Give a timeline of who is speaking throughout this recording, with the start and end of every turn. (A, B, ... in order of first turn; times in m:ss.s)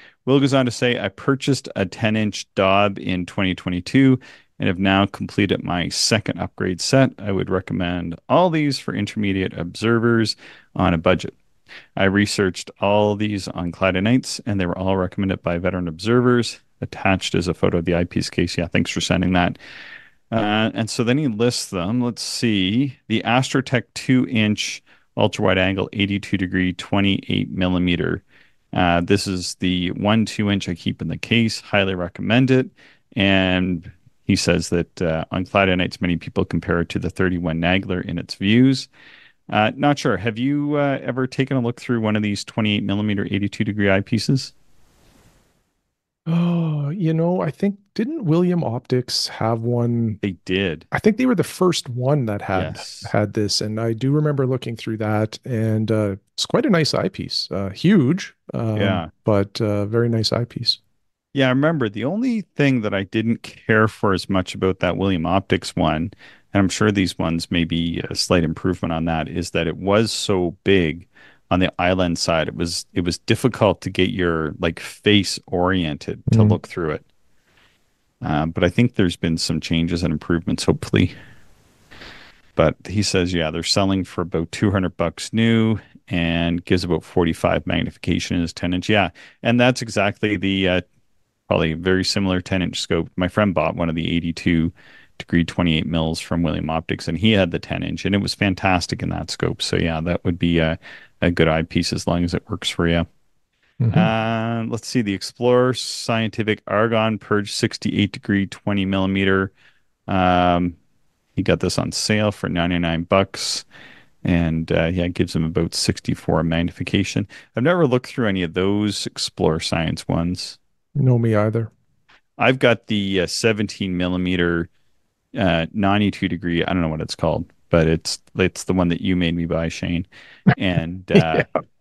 0:00.2-0:11.4 A
0:12.0-0:19.6 A
0:20.3-0:38.9 A
0:39.5-0:44.5 A
0:46.3-0:50.2 B
0:50.2-0:50.9 A
0:50.9-1:00.8 B
0:52.5-0:53.1 A
0:58.8-0:59.1 A
1:01.3-1:17.0 A
1:16.3-1:16.6 B
1:18.2-1:21.1 A
1:22.6-1:30.8 A
1:31.5-1:43.1 A
1:43.8-1:44.1 B
1:43.9-1:49.5 A
1:50.1-1:50.8 A
1:51.4-1:53.6 A
1:54.2-2:00.6 A
2:01.0-2:01.7 B
2:02.4-2:04.7 A
2:05.3-2:11.5 A